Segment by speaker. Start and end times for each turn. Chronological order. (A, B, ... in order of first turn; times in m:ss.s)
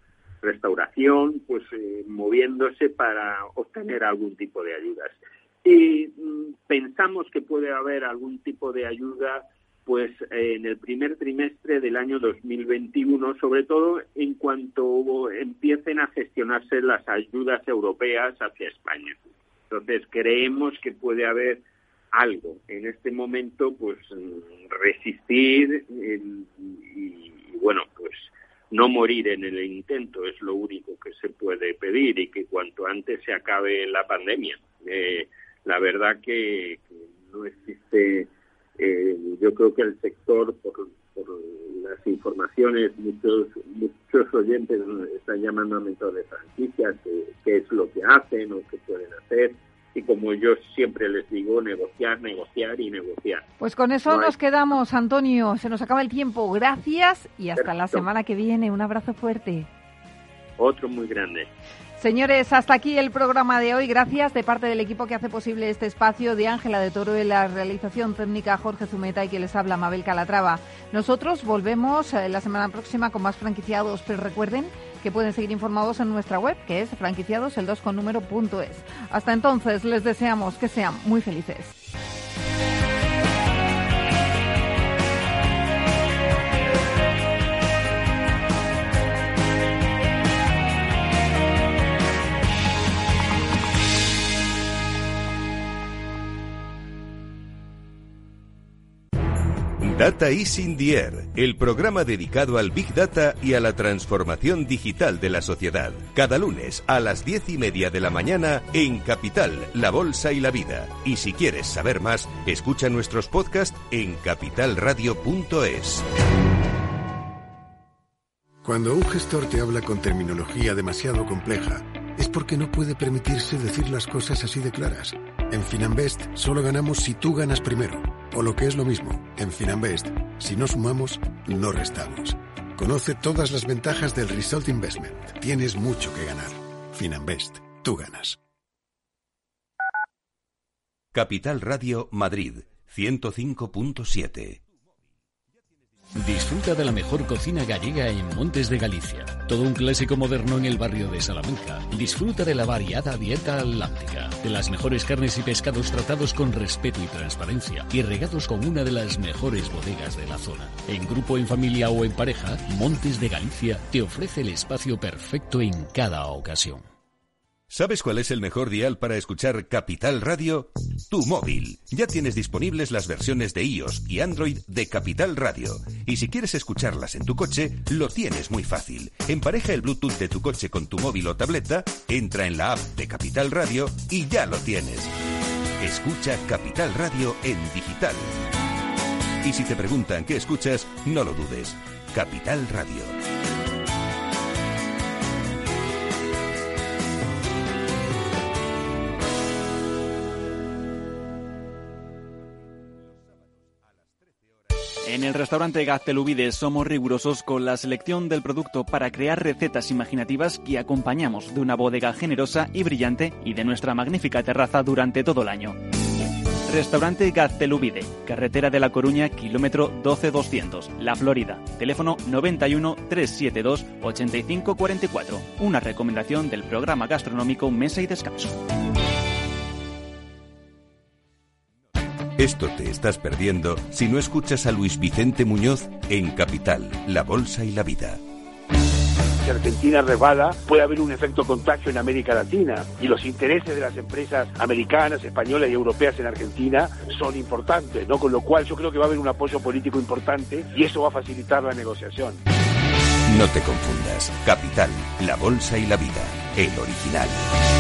0:00.4-0:53.5 A
0:53.6-0:59.7 B
0:54.1-0:54.4 A
0:57.6-0:58.1 A
1:00.6-1:01.5 A
1:02.0-1:21.7 B
1:39.8-1:56.1 C
1:58.6-2:18.4 D
2:21.1-2:24.6 C
2:26.2-2:46.8 E
2:47.7-3:05.1 C
3:05.8-3:08.4 C
3:09.4-3:13.2 C
3:25.0-3:35.8 F
3:36.7-3:48.6 F
3:52.4-3:58.2 C
3:59.4-4:12.4 G
4:13.3-4:17.4 C